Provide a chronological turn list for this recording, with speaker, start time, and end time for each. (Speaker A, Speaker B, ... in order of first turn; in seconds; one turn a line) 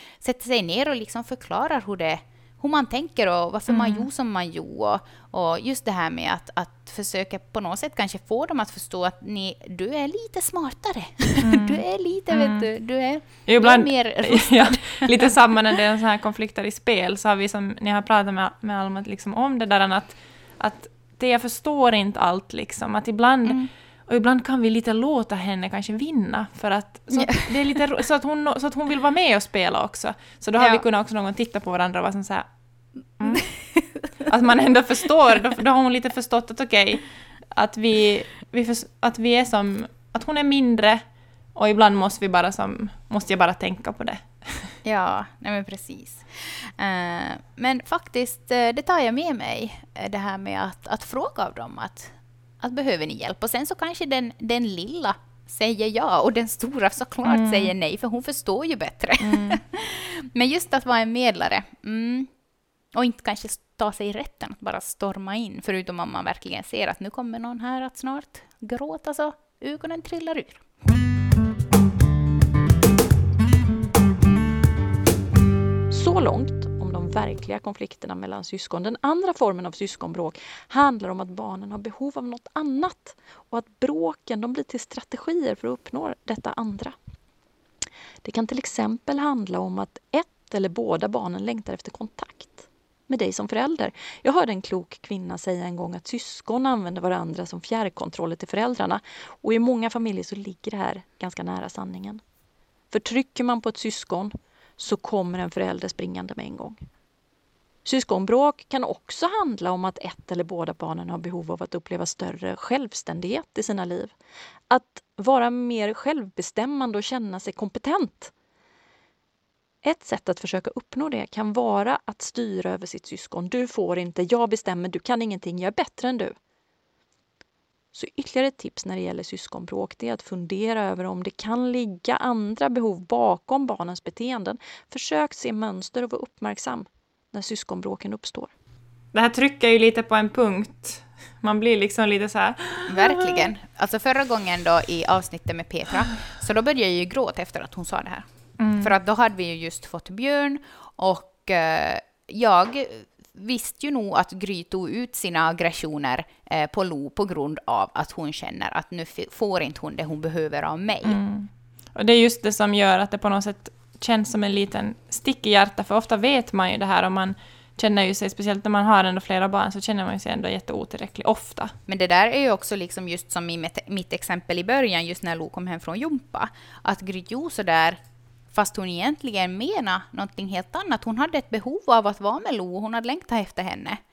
Speaker A: 0.2-15.3
Speaker B: 3.7-4.1
Speaker B: 11.4-12.7
Speaker B: 13.2-32.5
Speaker A: 27.1-27.5
Speaker A: 30.6-30.8
Speaker B: 33.2-44.7
Speaker A: 33.8-34.0
Speaker A: 44.8-62.3
Speaker B: 57.2-57.7
Speaker B: 59.2-59.6
Speaker A: 62.9-70.7
Speaker C: 75.9-87.0
Speaker C: 88.2-102.2
Speaker C: 102.9-106.8
Speaker C: 107.8-114.1
Speaker C: 114.7-118.3
Speaker C: 119.8-126.4
Speaker C: 127.9-138.5
Speaker B: 139.1-143.5
Speaker A: 142.9-161.2
Speaker B: 148.6-148.9
Speaker B: 161.0-171.7
Speaker A: 171.9-178.0
Speaker A: 178.5-184.0